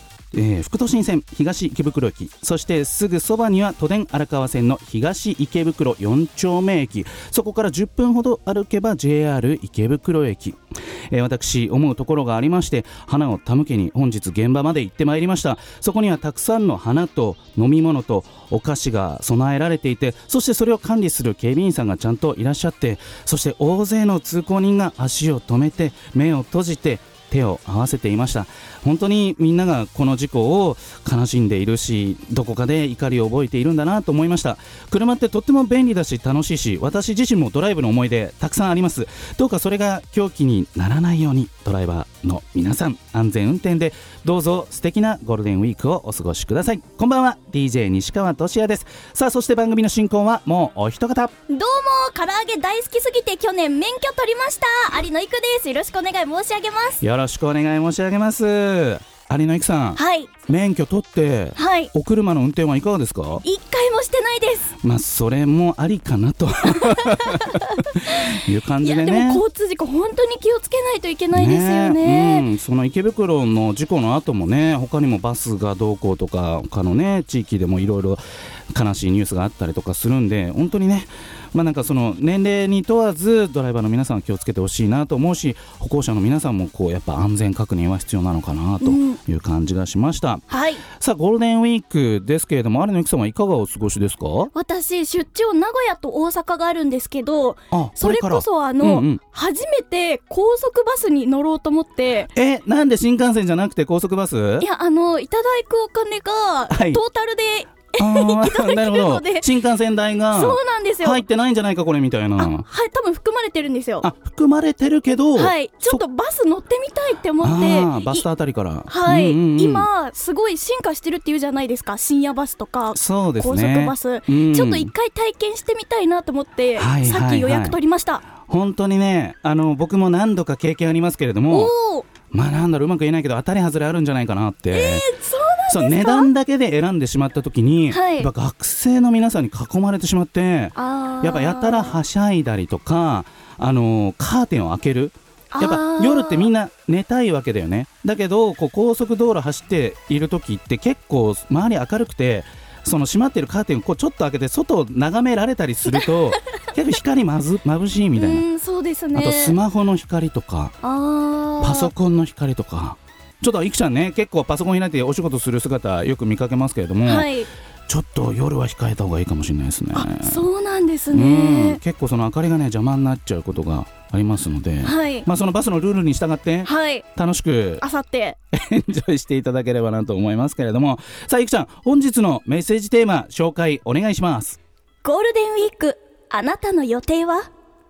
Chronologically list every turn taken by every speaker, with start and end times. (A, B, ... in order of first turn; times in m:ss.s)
0:00.3-0:51.3 A
0:51.5-0:57.0 B
0:57.0-1:03.4 A
1:00.0-1:00.4 B
1:01.6-1:01.9 B
1:03.4-1:04.7 B
1:04.8-1:09.4 A
1:07.2-1:12.5 B
1:11.3-1:18.2 A
1:18.7-1:34.5 A
1:28.8-1:29.2 B
1:30.5-1:30.8 B
1:34.5-1:42.3 B
1:37.7-1:39.2 A
1:42.3-1:44.7 A
1:44.6-1:49.5 B
1:46.7-1:47.0 A
1:48.0-1:52.6 A
1:50.3-1:51.2 B
1:52.4-1:54.1 B
1:54.0-1:56.0 A
1:55.3-1:58.2 B
1:57.4-1:59.9 A
1:58.9-2:08.2 B
2:02.9-2:04.9 A
2:06.8-2:07.8 A
2:08.4-2:11.7 A
2:11.5-2:12.1 B
2:12.3-2:15.1 A
2:14.7-2:16.3 B
2:15.7-2:38.4 A
2:17.9-2:18.3 B
2:20.8-2:22.0 B
2:25.5-2:26.5 B
2:38.2-2:39.6 B
2:39.1-2:40.8 A
2:40.8-2:41.9 B
2:41.6-2:47.3 A
2:47.0-2:47.5 B
2:47.9-2:50.4 A
2:50.0-2:51.8 B
2:51.1-2:57.8 A
2:54.8-2:55.3 B
2:56.6-2:57.0 B
2:57.8-2:58.4 B
2:58.5-3:04.6 A
3:05.0-3:07.5 B